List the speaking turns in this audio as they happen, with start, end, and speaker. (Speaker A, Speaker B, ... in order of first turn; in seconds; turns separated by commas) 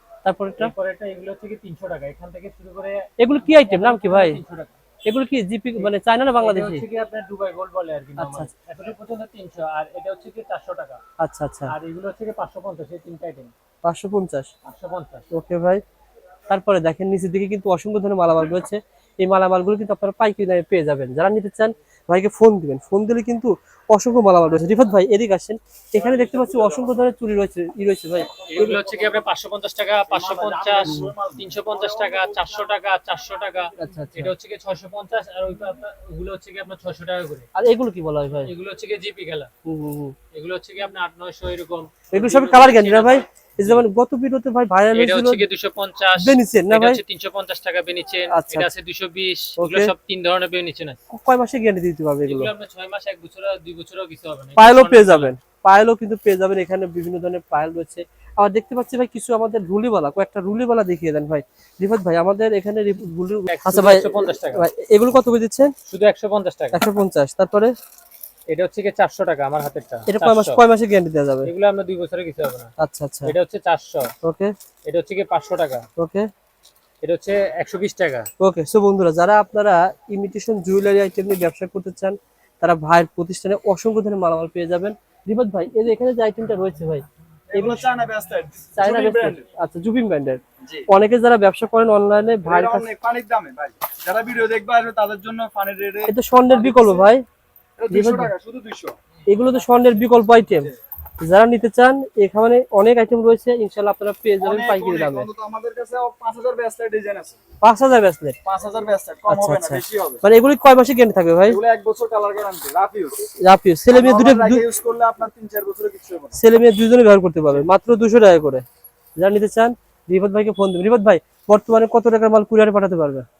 Speaker A: 0.2-0.7, Speaker B: 0.6-4.7, Speaker A: 3.2-4.4, Speaker A: 5.0-6.8, Speaker B: 5.8-11.0, Speaker A: 8.2-8.5, Speaker A: 11.2-11.7, Speaker B: 11.7-13.5, Speaker A: 13.8-14.5, Speaker B: 14.7-15.2, Speaker A: 15.3-15.8, Speaker A: 16.5-28.6, Speaker C: 26.1-26.8, Speaker B: 28.5-37.5, Speaker C: 28.6-28.9, Speaker C: 30.1-32.5, Speaker A: 30.9-31.1, Speaker A: 33.8-34.3, Speaker A: 37.5-38.5, Speaker B: 38.4-39.5, Speaker A: 39.6-40.1, Speaker B: 40.3-43.2, Speaker A: 42.1-45.5, Speaker B: 44.9-51.0, Speaker A: 46.2-47.0, Speaker A: 48.3-48.7, Speaker A: 49.6-49.9, Speaker A: 51.1-52.5, Speaker B: 52.2-55.3, Speaker A: 54.5-65.7, Speaker B: 63.5-64.6, Speaker B: 65.9-66.8, Speaker A: 66.7-67.7, Speaker B: 68.5-70.6, Speaker A: 70.1-71.5, Speaker B: 71.4-72.7, Speaker A: 72.8-73.3, Speaker B: 73.2-74.1, Speaker A: 74.2-74.5, Speaker B: 74.8-75.8, Speaker A: 76.0-76.2, Speaker B: 77.0-78.3, Speaker A: 78.4-87.8, Speaker C: 87.5-89.4, Speaker A: 88.7-92.9, Speaker C: 92.4-97.1, Speaker A: 96.1-97.2, Speaker C: 97.8-98.9, Speaker A: 97.9-98.3, Speaker A: 99.3-100.7, Speaker A: 101.2-105.3, Speaker C: 104.4-107.4, Speaker A: 107.6-108.4, Speaker C: 108.4-110.2, Speaker A: 109.3-111.6, Speaker C: 111.5-113.2, Speaker A: 113.4-114.6, Speaker C: 113.9-116.3, Speaker A: 116.3-118.6, Speaker A: 119.2-123.2